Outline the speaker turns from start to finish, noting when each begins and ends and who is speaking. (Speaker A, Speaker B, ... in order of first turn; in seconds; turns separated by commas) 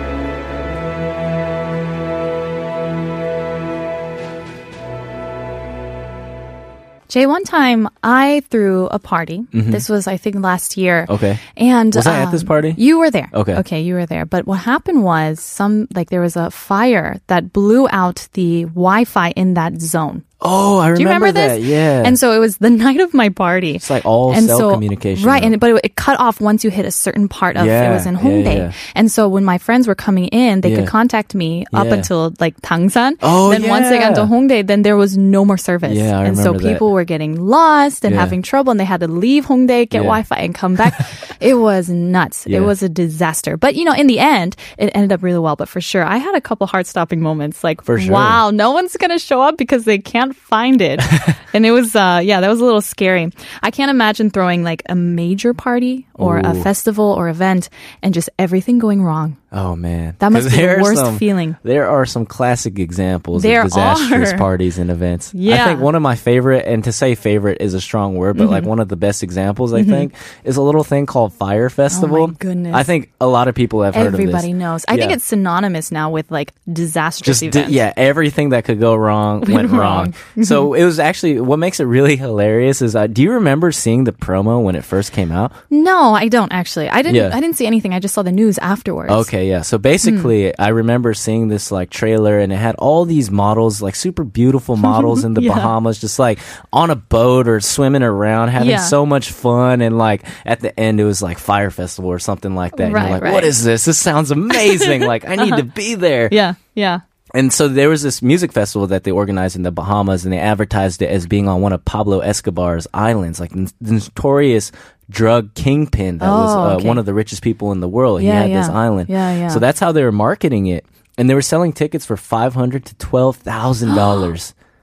Speaker A: 7.1-20.2, Speaker B: 9.5-9.8, Speaker B: 11.1-11.4, Speaker B: 11.9-12.8, Speaker B: 13.3-13.6, Speaker B: 20.4-22.2, Speaker A: 20.9-59.4, Speaker B: 23.8-25.5, Speaker B: 27.5-28.7, Speaker B: 30.6-30.9, Speaker B: 31.7-32.1, Speaker B: 33.2-34.3, Speaker B: 35.9-36.8, Speaker B: 38.1-38.3, Speaker B: 39.9-40.2, Speaker B: 42.5-42.7, Speaker B: 47.9-48.4, Speaker B: 56.2-56.7, Speaker B: 59.5-75.2, Speaker A: 60.2-61.6, Speaker A: 63.3-64.5, Speaker A: 65.3-65.9, Speaker A: 68.3-68.7, Speaker A: 69.8-70.1, Speaker A: 71.9-72.9, Speaker A: 73.9-77.8, Speaker B: 77.2-85.5, Speaker A: 79.4-80.7, Speaker A: 85.7-89.3, Speaker B: 87.1-87.4, Speaker B: 89.1-106.3, Speaker A: 90.0-90.3, Speaker A: 94.8-95.7, Speaker A: 98.6-98.9, Speaker A: 102.8-103.5, Speaker A: 104.6-105.6, Speaker A: 106.3-107.0, Speaker B: 107.3-124.5, Speaker A: 116.2-117.0, Speaker A: 118.2-119.6, Speaker A: 123.9-124.2